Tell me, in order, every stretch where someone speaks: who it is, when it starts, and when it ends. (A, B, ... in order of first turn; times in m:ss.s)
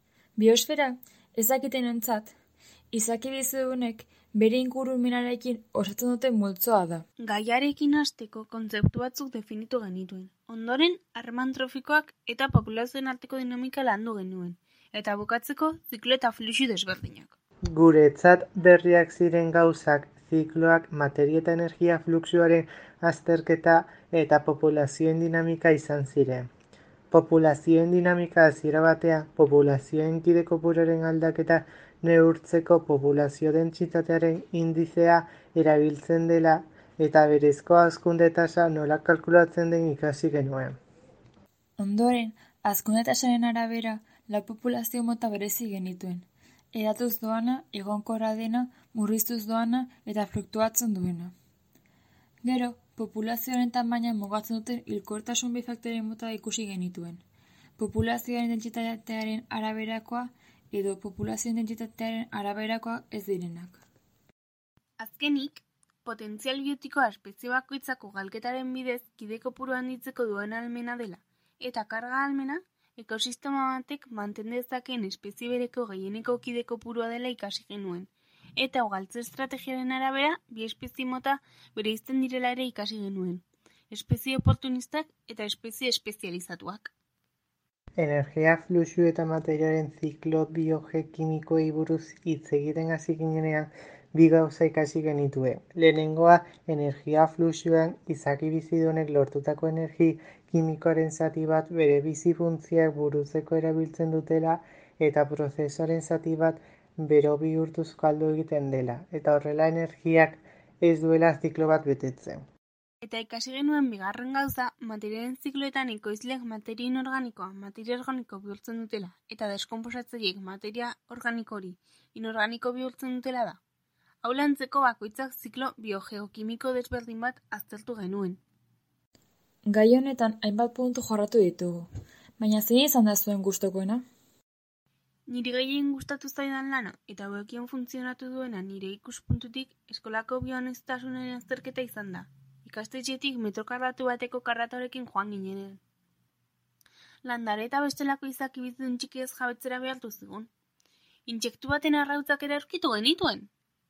0:00.4-0:02.3 A
0:02.9-0:07.0 A
0:07.2-0:17.3 B
0:17.7-0:26.5 C
0:27.1-0:40.8 C
0:41.8-0:51.3 A
0:52.4-0:57.2 A
0:57.8-1:03.8 A
1:05.0-1:26.9 B
1:28.0-1:52.4 C
1:53.0-2:03.6 B
2:04.2-2:08.4 B
2:09.6-2:14.0 A
2:15.3-2:25.8 B
2:27.2-2:30.5 B
2:31.3-2:33.5 B